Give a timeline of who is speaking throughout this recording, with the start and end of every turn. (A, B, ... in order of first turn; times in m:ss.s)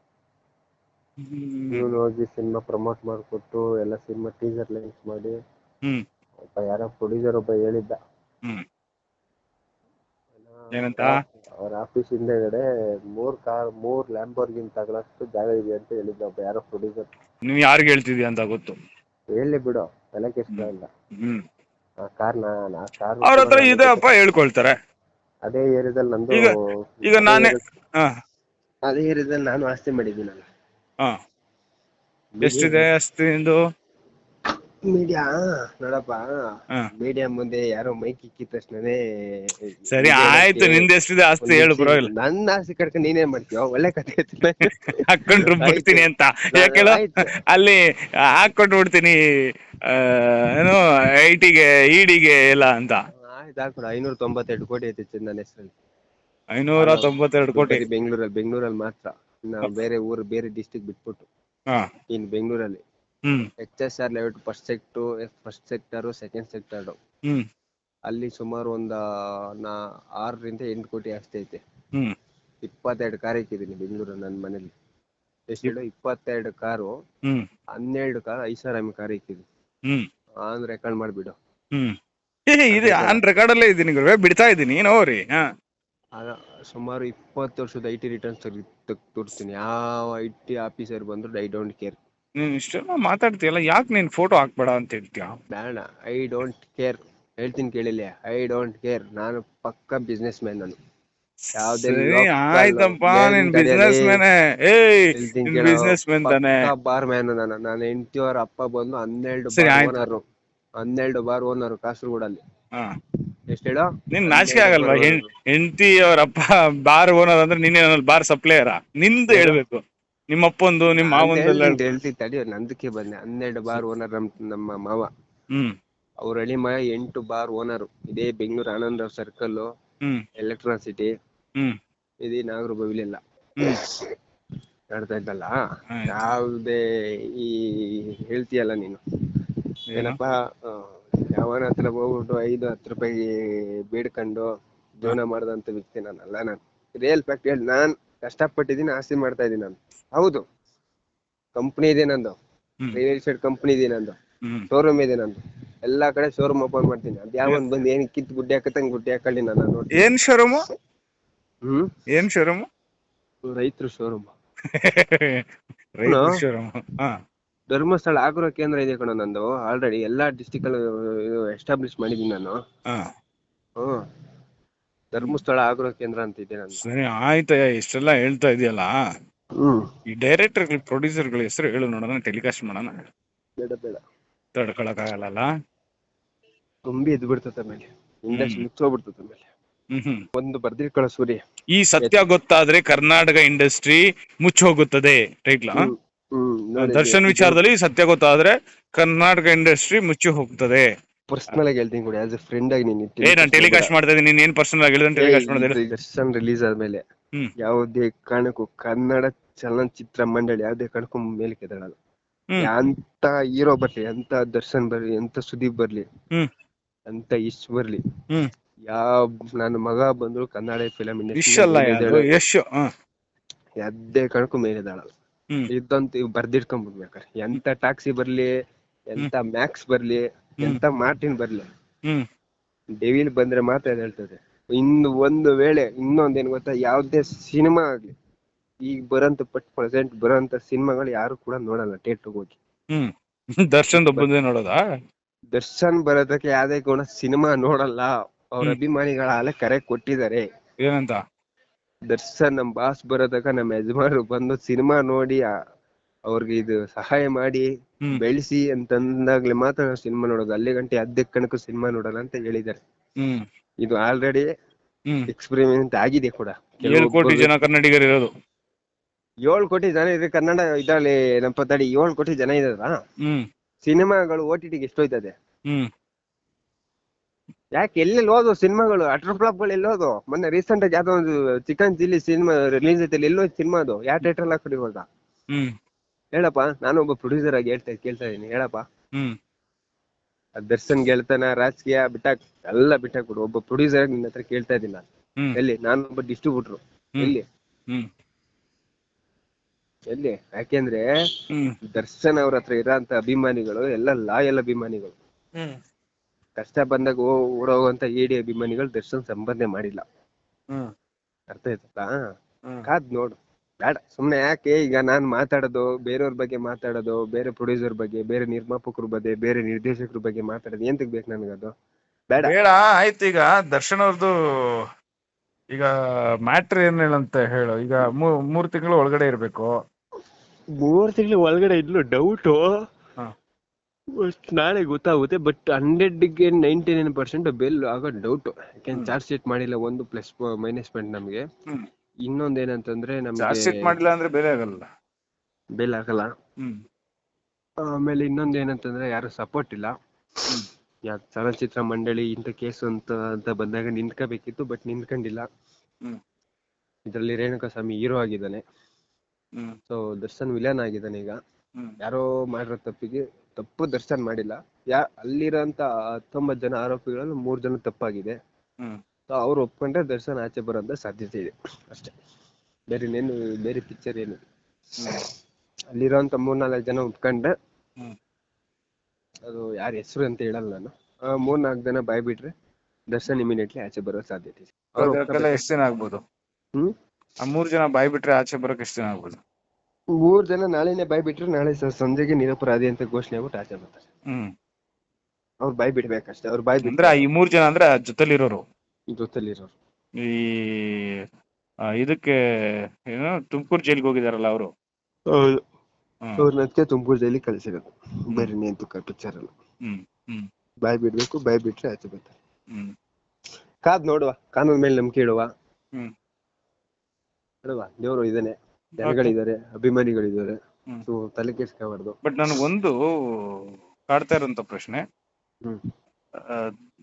0:01.2-0:02.0 A
0:01.7-0:05.4 B
0:06.4-0:08.0 B
0:10.4-0:17.1 B
0:10.7-0:11.2 A
0:17.5-0:18.8 A
0:19.4-0:20.9 B
0:20.5-0:21.4 A
0:22.0-0:24.1 B
0:23.2-0:24.7 A
0:25.4-0:27.6 B
0:27.1-0:28.1 A
0:28.9-0:30.4 B
0:32.4-0:32.8 B
0:32.4-0:33.6 A
0:34.9-0:36.3 B
0:37.0-0:40.9 B
0:39.9-0:42.1 A
0:41.4-0:47.3 B
0:44.9-0:49.2 A
0:49.9-0:53.0 A
0:53.2-0:55.7 B
0:56.6-0:57.8 A
0:56.8-1:01.3 B
1:02.1-1:02.8 B
1:03.6-1:07.0 B
1:08.1-1:09.0 B
1:09.6-1:11.6 B
1:12.6-1:14.7 B
1:15.5-1:16.9 B
1:17.8-1:19.5 B
1:20.5-1:21.4 B
1:22.5-1:25.4 A
1:22.7-1:23.2 B
1:26.2-1:32.0 B
1:32.4-1:35.3 A
1:35.5-1:40.8 B
1:41.6-1:44.2 B
1:41.7-1:46.7 A
1:45.1-1:50.2 B
1:49.5-1:50.0 A
1:50.8-1:52.4 B
1:53.5-1:55.3 B
1:54.1-2:01.8 A
1:59.3-1:59.6 B
2:01.0-2:05.1 B
2:06.2-2:09.7 B
2:10.4-2:11.1 B
2:12.2-2:13.2 B
2:13.8-2:14.1 B
2:14.9-2:15.5 B
2:16.0-2:16.2 A
2:16.1-2:19.0 B
2:20.0-2:30.4 B
2:31.6-2:32.4 B
2:32.9-2:34.2 B
2:34.7-2:40.1 B
2:40.0-2:40.6 A
2:41.6-2:41.9 B
2:42.1-2:42.6 A
2:43.5-2:44.3 B
2:44.7-2:45.4 A
2:46.0-2:47.2 A
2:46.1-2:46.3 B
2:47.7-2:52.6 B
2:55.1-2:56.8 B
2:56.8-2:58.9 A
2:59.6-2:59.9 B
3:00.1-3:03.0 A
3:03.6-3:04.0 B
3:04.6-3:05.5 A
3:06.9-3:09.5 B
3:08.3-3:08.6 A
3:09.9-3:10.2 A
3:10.4-3:11.4 B
3:11.7-3:15.9 A
3:15.8-3:17.6 B
3:16.8-3:20.9 A
3:21.3-3:23.9 B
3:23.2-3:25.8 A
3:25.2-3:27.0 B
3:27.6-3:32.0 B
3:32.6-3:36.1 B
3:37.1-3:38.0 B
3:38.9-3:42.3 B
3:41.4-3:42.9 A
3:43.8-3:45.1 B
3:45.7-3:48.5 B
3:49.1-3:51.7 B
3:53.0-3:58.1 B
3:58.8-4:02.6 B
4:02.9-4:04.8 A
4:03.9-4:04.3 B
4:05.5-4:10.4 B
4:10.8-4:11.2 A
4:12.1-4:15.4 B
4:16.3-4:22.8 B
4:23.8-4:24.5 B
4:25.3-4:27.5 B
4:26.9-4:28.3 A
4:29.4-4:32.9 B
4:33.8-4:35.3 B
4:37.8-4:45.1 B
4:46.4-4:48.8 B
4:50.6-4:57.4 B
5:00.1-5:01.0 B
5:01.9-5:05.2 B
5:06.6-5:10.0 B
5:11.5-5:12.2 B
5:12.8-5:21.7 B
5:22.4-5:24.3 A
5:26.5-5:29.7 A
5:30.8-5:32.7 B
5:34.2-5:41.4 B
5:42.2-5:43.9 B
5:43.4-5:44.9 A
5:45.8-5:46.3 B
5:47.8-5:49.9 B
5:51.1-5:55.5 B
5:57.1-5:58.6 B
5:59.9-6:01.4 B
6:02.0-6:08.4 B
6:09.3-6:12.1 B
6:12.9-6:14.4 B
6:15.0-6:15.2 A
6:15.9-6:17.5 B
6:19.4-6:22.5 B
6:23.1-6:25.6 B
6:25.0-6:26.2 A
6:27.4-6:29.4 A
6:30.2-6:34.0 B
6:35.6-6:37.2 B
6:36.8-6:38.6 A
6:39.1-6:39.7 B
6:40.2-6:41.1 A
6:42.0-6:42.3 A
6:43.1-6:44.7 A
6:45.3-6:45.6 B
6:46.4-6:49.5 B
6:49.8-6:50.5 A
6:50.8-6:52.4 B
6:53.8-6:55.5 B
6:57.6-7:02.2 B
6:59.0-6:59.3 A
7:02.2-7:05.0 A
7:06.5-7:06.7 A